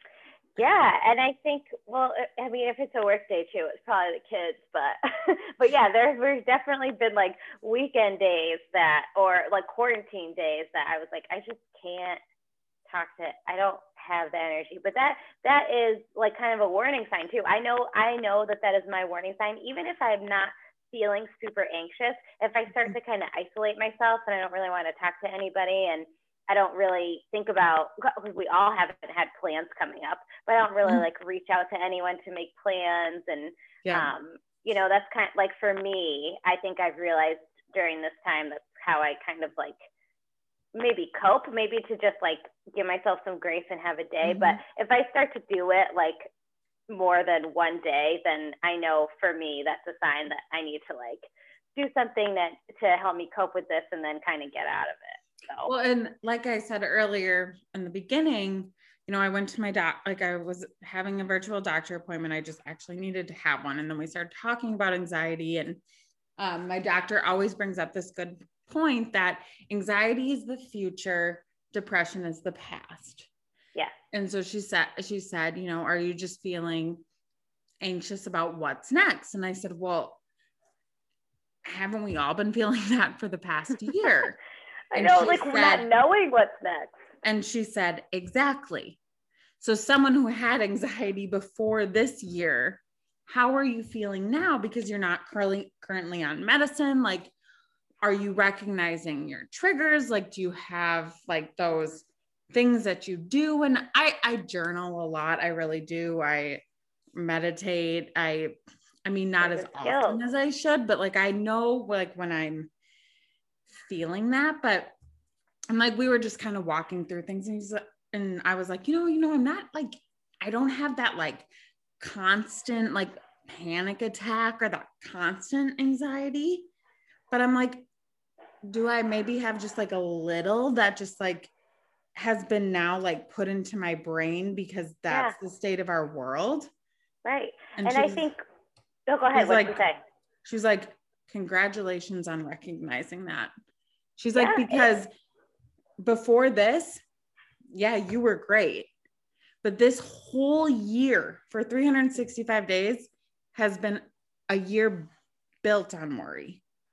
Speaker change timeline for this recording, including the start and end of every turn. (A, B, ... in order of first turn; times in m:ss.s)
0:00.6-0:12.2 A
0:12.9-0:39.8 A
0:33.8-0:34.1 B
0:40.7-0:46.3 A
0:44.2-0:44.6 B
0:46.9-0:55.7 A
0:55.6-1:05.8 B
1:06.4-1:13.3 B
1:14.1-1:17.0 B
1:17.8-1:20.2 B
1:21.6-1:24.4 B
1:24.9-1:26.9 A
1:24.9-1:25.9 B
1:27.2-1:29.0 B
1:29.6-1:37.3 B
1:38.0-1:46.6 B
1:47.1-1:48.5 B
1:49.0-1:52.7 B
1:49.4-1:50.2 A
1:53.7-1:54.9 B
1:55.7-2:01.5 B
2:02.0-2:06.7 B
2:07.3-2:07.9 B
2:08.6-2:11.5 B
2:12.1-2:16.7 B
2:15.1-2:15.4 A
2:17.2-2:18.4 A
2:17.8-2:18.2 B
2:19.1-2:20.0 A
2:19.3-2:19.8 B
2:20.4-2:23.5 B
2:24.2-2:25.1 B
2:24.3-2:24.9 A
2:26.0-2:27.0 B
2:27.7-2:28.9 B
2:29.6-2:35.1 B
2:35.6-2:36.6 B